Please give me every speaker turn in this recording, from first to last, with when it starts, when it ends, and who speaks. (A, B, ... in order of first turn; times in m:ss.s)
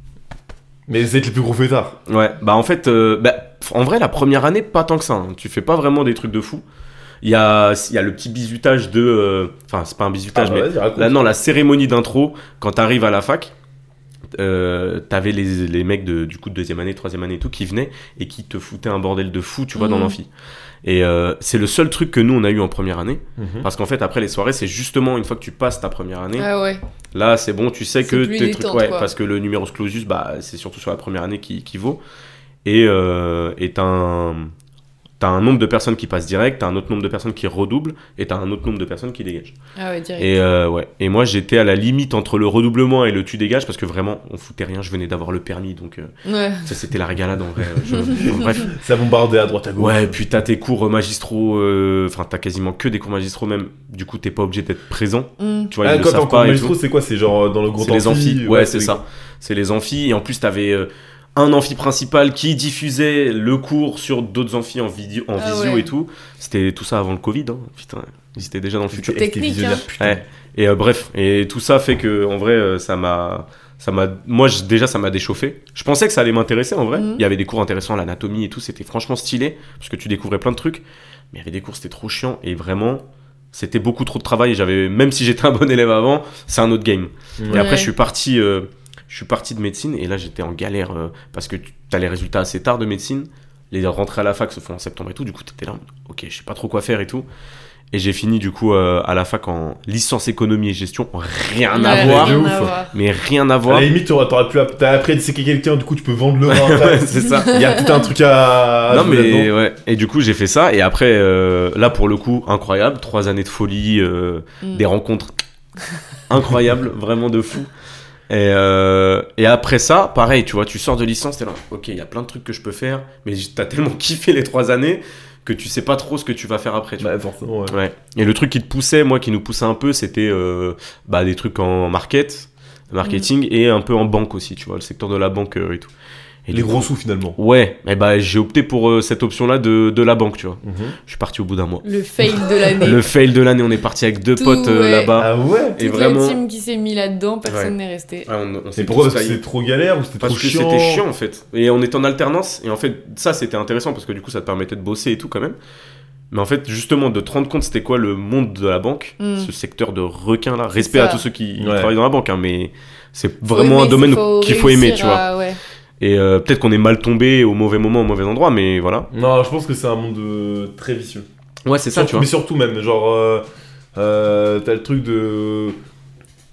0:00.9-0:02.0 A
0:02.1-0:06.6 B
0:07.2-0:13.5 B
0:10.3-0:11.2 A
0:14.4-0:20.3 B
0:19.8-0:20.2 C
0:20.8-0:26.5 B
0:23.4-0:23.7 A
0:26.4-0:26.8 C
0:27.1-0:32.0 B
0:28.1-0:29.1 C
0:32.6-0:34.5 B
0:35.2-0:39.6 B
0:39.8-0:40.3 C
0:40.2-0:48.7 B
0:46.2-0:46.7 C
0:47.9-0:48.2 C
0:48.2-0:50.2 A
0:49.8-0:56.8 B
0:55.4-0:55.7 C
0:55.8-0:59.0 A
0:57.8-1:09.3 B
1:05.4-1:05.9 C
1:08.9-1:10.2 A
1:09.1-1:09.9 C
1:10.0-1:37.3 B
1:16.9-1:17.2 C
1:27.4-1:27.7 A
1:27.5-1:27.9 C
1:37.9-1:43.9 B
1:41.7-1:43.0 C
1:41.9-1:42.8 A
1:43.7-1:49.5 A
1:46.5-1:47.6 B
1:47.5-1:47.9 C
1:48.9-1:55.4 B
1:56.3-1:57.7 B
1:58.3-2:07.1 B
2:07.0-2:07.8 A
2:07.7-2:15.9 B
2:16.5-2:21.8 B
2:16.5-2:17.4 A
2:20.6-2:21.0 A
2:21.8-2:23.0 C
2:22.8-2:26.4 B
2:24.4-2:25.2 C
2:25.2-2:25.8 A
2:25.8-2:28.3 C
2:27.5-2:27.7 B
2:28.3-2:29.4 B
2:28.8-2:31.0 A
2:30.2-2:35.6 B
2:36.3-2:45.2 B
2:39.2-2:39.5 C
2:40.8-2:41.2 C
2:41.6-2:41.9 A
2:43.5-2:45.6 C
2:46.0-2:49.1 B
2:49.1-2:51.3 A
2:51.7-2:52.3 B
2:51.9-2:55.8 A